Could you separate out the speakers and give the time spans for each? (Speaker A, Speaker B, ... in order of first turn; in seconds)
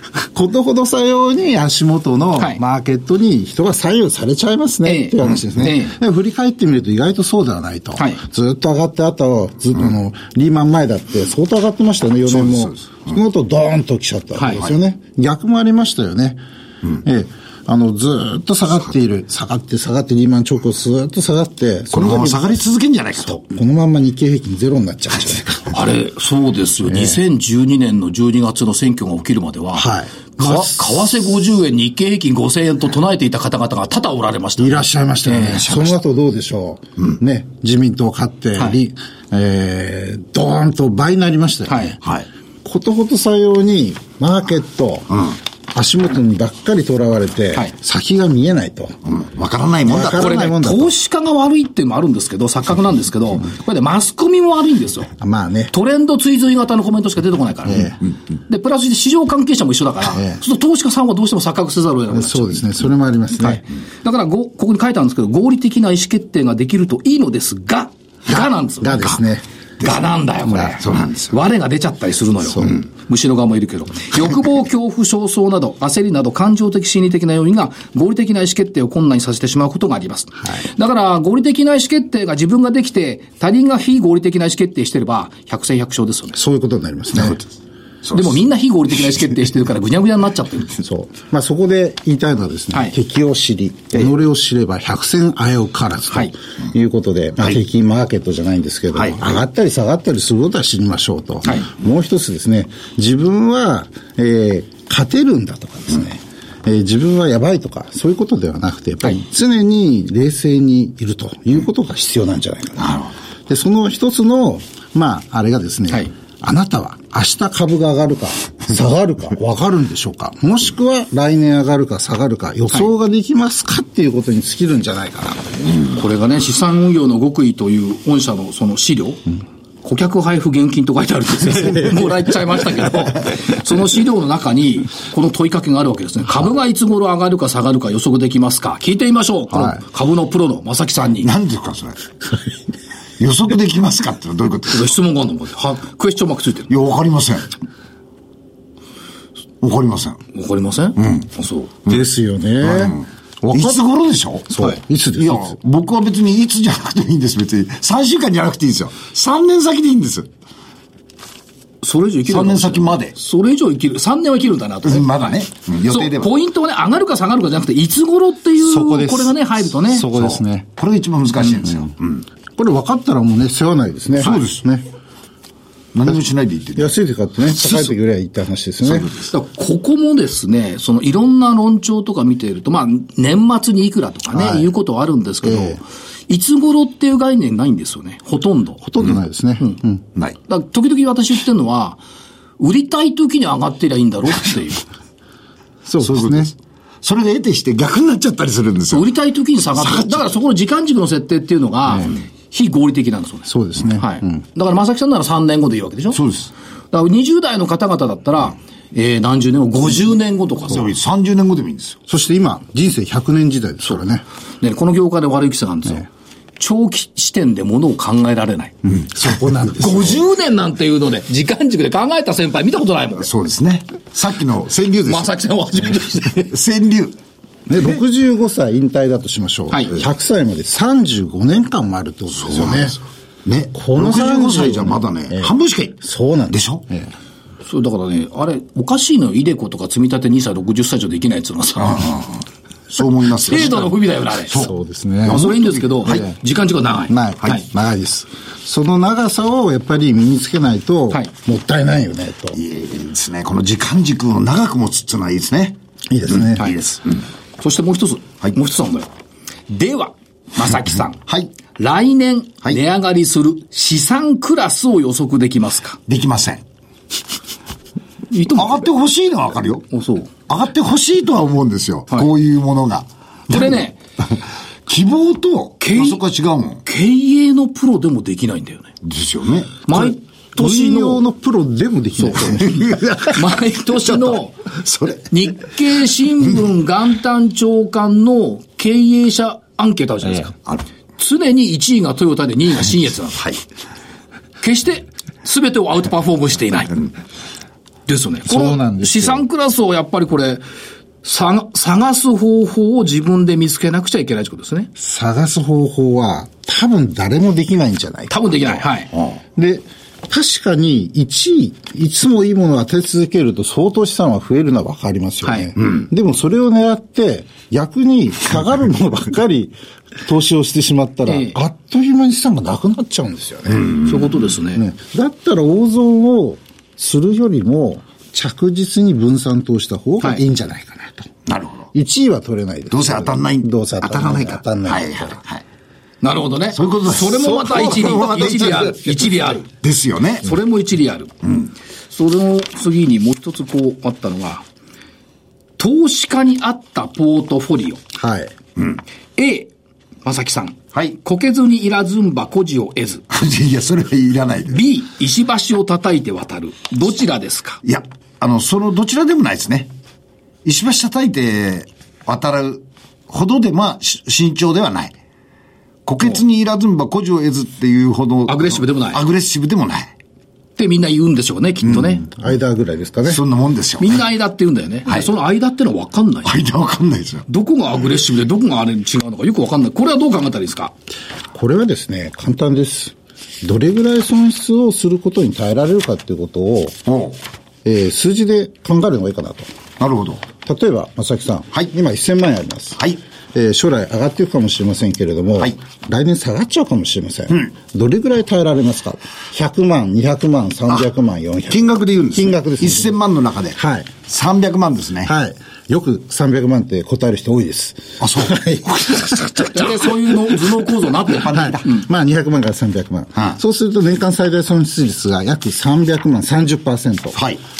Speaker A: 0.2-16.4, 16.9-22.5, 23.2-25.8, 26.9-27.2, 29.7-30.8, 34.6-42.0, 42.6-49.0, 49.9-50.9, 55.2-55.7, 57.6-58.0, 60.1-60.4, 62.1-63.6, 68.8-69.4, 86.3-87.4, 90.8-113.0, 113.5-125.6, 151.9-153.8, 154.5-155.6, 168.6-170.7, 172.6-174.9, 176.8-179.1, 184.3-184.7, 185.4-185.8, 188.8-190.0, 195.8-196.5, 203.5-204.4, 212.1-214.2, 219.1-220.2, 227.7-233.0, 233.7-237.1, 244.6-245.5, 246.0-246.3, 247.1-252.6, 256.1-256.8, 280.6-283.0, 298.4-299.4, 305.0-308.7, 309.6-324.0, 324.7-331.3, 331.9-335.4, 338.4-338.9, 348.1-348.5, 372.3-373.4, 381.5-387.0, 387.8-389.7, 390.6-393.0, 393.5-403.2, 403.8-404.2, 405.2-409.7, 411.5-417.4
Speaker B: 4.8-5.9, 14.4-14.6, 25.7-35.8, 41.7-42.0, 50.1-55.1, 55.7-62.7, 63.4-69.2, 69.8-86.4, 88.1-90.8, 125.9-129.2, 129.8-141.3, 144.7-146.7, 150.3-151.7, 161.8-165.3, 165.9-170.1, 179.3-188.8, 190.5-192.0, 192.6-194.8, 198.9-206.2, 206.9-210.9, 214.6-216.1, 216.6-218.7, 219.8-223.3, 225.0-226.5, 237.6-242.3, 243.4-244.7, 245.2-247.6, 257.6-259.1, 259.7-261.2, 261.8-266.0, 268.3-268.9, 269.9-270.3, 273.5-273.9, 275.8-276.2, 276.8-278.9, 279.9-281.2, 282.2-284.6, 285.3-290.5, 291.2-293.4, 294.6-297.0, 298.1-300.6, 301.2-304.9, 308.3-309.1, 315.4-315.7, 321.3-321.6, 324.0-324.8, 336.2-339.6, 340.4-341.3, 342.1-344.6, 345.8-348.0, 349.4-349.7, 350.2-353.2, 354.7-357.8, 368.5-369.2, 370.8-372.2, 374.0-376.5, 377.5-380.9, 409.7-412.0
Speaker C: 12.3-13.1, 21.9-23.4, 49.0-50.3, 70.8-71.3, 87.2-87.4, 88.0-88.4, 112.8-113.1, 141.2-142.0, 143.2-144.9, 146.7-147.5, 149.6-150.2, 151.0-151.2, 152.6-154.6, 155.2-160.3, 162.3-163.1, 164.8-166.3, 170.1-172.2, 174.2-174.6, 175.9-177.9, 178.8-179.3, 196.0-199.1, 199.8-200.3, 206.1-206.5, 210.7-212.0, 223.2-225.3, 226.4-227.2, 232.3-236.0, 236.5-236.8, 241.8-242.3, 242.9-243.9, 245.2-246.2, 252.5-255.8, 256.3-257.2, 266.1-266.6, 268.5-269.9, 270.5-276.8, 279.0-279.8, 282.5-283.4, 283.9-285.3, 331.5-331.9, 332.9-335.6, 336.7-340.5, 353.3-354.8, 357.8-359.9, 360.6-365.1, 366.1-370.1, 373.2-374.2, 376.4-377.4, 387.1-387.4, 390.0-390.4, 401.7-405.3, 408.2-409.4, 411.3-411.8, 417.4-417.6